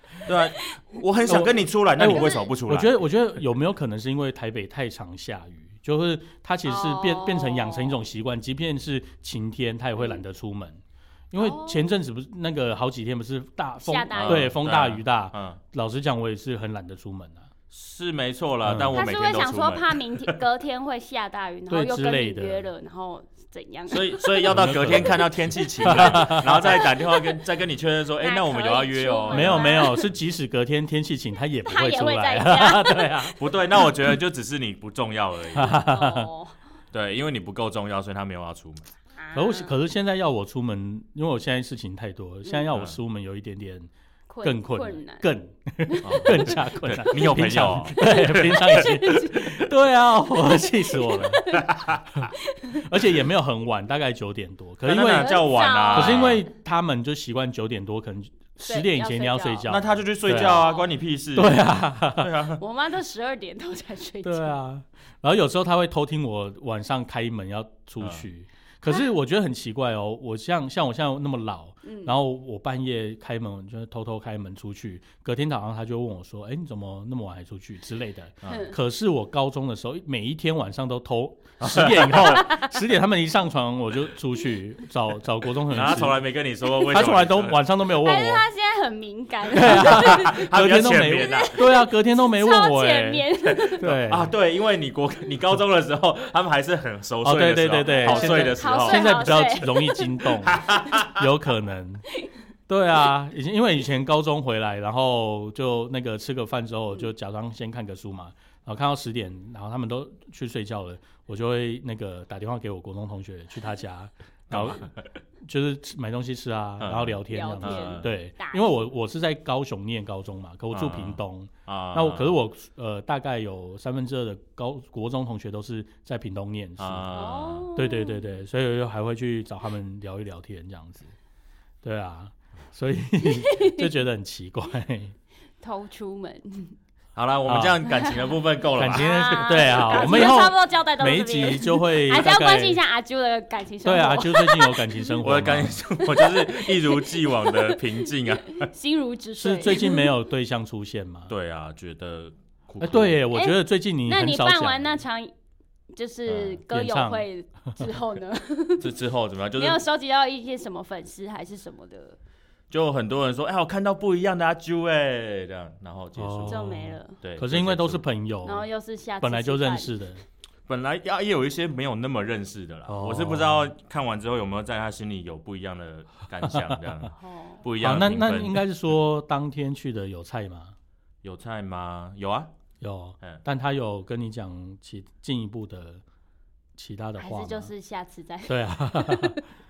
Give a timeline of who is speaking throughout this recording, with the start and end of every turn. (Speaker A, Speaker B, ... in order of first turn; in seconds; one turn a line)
Speaker A: 0.2-3.0
Speaker B: 1.2-10.8
Speaker C: 2.1-2.5
Speaker C: 6.6-8.0
Speaker B: 11.3-17.5
Speaker C: 11.3-11.9
Speaker C: 13.8-14.5
Speaker A: 14.1-15.6
Speaker A: 17.7-20.4
Speaker B: 18.6-18.9
Speaker C: 18.9-25.1
Speaker B: 21.7-22.6
Speaker A: 23.9-29.7
Speaker B: 24.5-26.6
Speaker C: 25.6-27.4
Speaker C: 28.2-30.1
Speaker B: 29.3-33.4
Speaker C: 31.7-33.3
Speaker A: 33.4-35.8
Speaker B: 35.5-36.2
Speaker C: 35.6-36.5
Speaker A: 36.9-38.9
Speaker C: 39.2-39.7
Speaker B: 39.3-43.9
Speaker C: 44.3-45.2
Speaker B: 44.4-51.5
Speaker C: 45.9-47.2
Speaker A: 46.0-48.8
Speaker C: 48.0-49.5
Speaker C: 50.5-51.8
Speaker A: 51.5-52.0
Speaker B: 52.2-60.6
Speaker C: 52.5-53.0
Speaker A: 54.8-56.4
Speaker C: 55.1-56.4
Speaker C: 58.6-59.7
Speaker A: 59.6-62.6
Speaker C: 60.3-60.9
Speaker B: 61.4-62.3
Speaker C: 62.6-64.6
Speaker B: 64.2-86.2
Speaker C: 71.8-72.1
Speaker A: 78.4-78.7
Speaker C: 78.4-78.8
Speaker A: 81.6-82.5
Speaker A: 85.7-87.6
Speaker B: 86.8-88.5
Speaker C: 88.0-90.5
Speaker B: 89.5-93.2
Speaker A: 89.6-91.6
Speaker C: 91.1-93.9
Speaker A: 93.5-99.2
Speaker B: 93.8-94.3
Speaker B: 97.2-102.0
Speaker C: 98.0-100.5
Speaker A: 100.5-101.2
Speaker B: 102.7-114.9
Speaker A: 114.5-114.9
Speaker B: 115.4-127.2
Speaker A: 116.8-118.1
Speaker C: 117.3-118.6
Speaker A: 120.7-122.3
Speaker A: 126.8-127.7
Speaker C: 127.1-128.4
Speaker B: 127.7-131.1
Speaker B: 131.8-135.1
Speaker C: 133.3-133.9
Speaker C: 135.6-136.7
Speaker A: 137.1-140.3
Speaker B: 137.5-137.8
Speaker C: 137.9-138.2
Speaker B: 138.8-142.8
Speaker C: 138.9-145.0
Speaker B: 143.8-145.8
Speaker A: 145.2-148.7
Speaker C: 146.0-147.9
Speaker C: 148.5-150.1
Speaker B: 149.4-151.3
Speaker A: 151.3-153.2
Speaker B: 152.8-154.9
Speaker C: 153.3-155.3
Speaker C: 155.9-159.0
Speaker A: 156.3-156.6
Speaker B: 156.7-157.8
Speaker A: 158.8-159.8
Speaker C: 159.5-162.2
Speaker A: 162.7-166.7
Speaker B: 166.2-168.7
Speaker C: 166.4-167.2
Speaker A: 167.2-168.0
Speaker C: 168.4-170.0
Speaker B: 169.2-170.2
Speaker A: 170.7-178.6
Speaker B: 172.9-173.7
Speaker B: 176.4-176.8
Speaker C: 177.1-177.6
Speaker B: 177.8-180.7
Speaker A: 181.2-182.5
Speaker B: 182.8-186.0
Speaker B: 186.8-187.7
Speaker C: 187.2-189.4
Speaker B: 188.5-189.4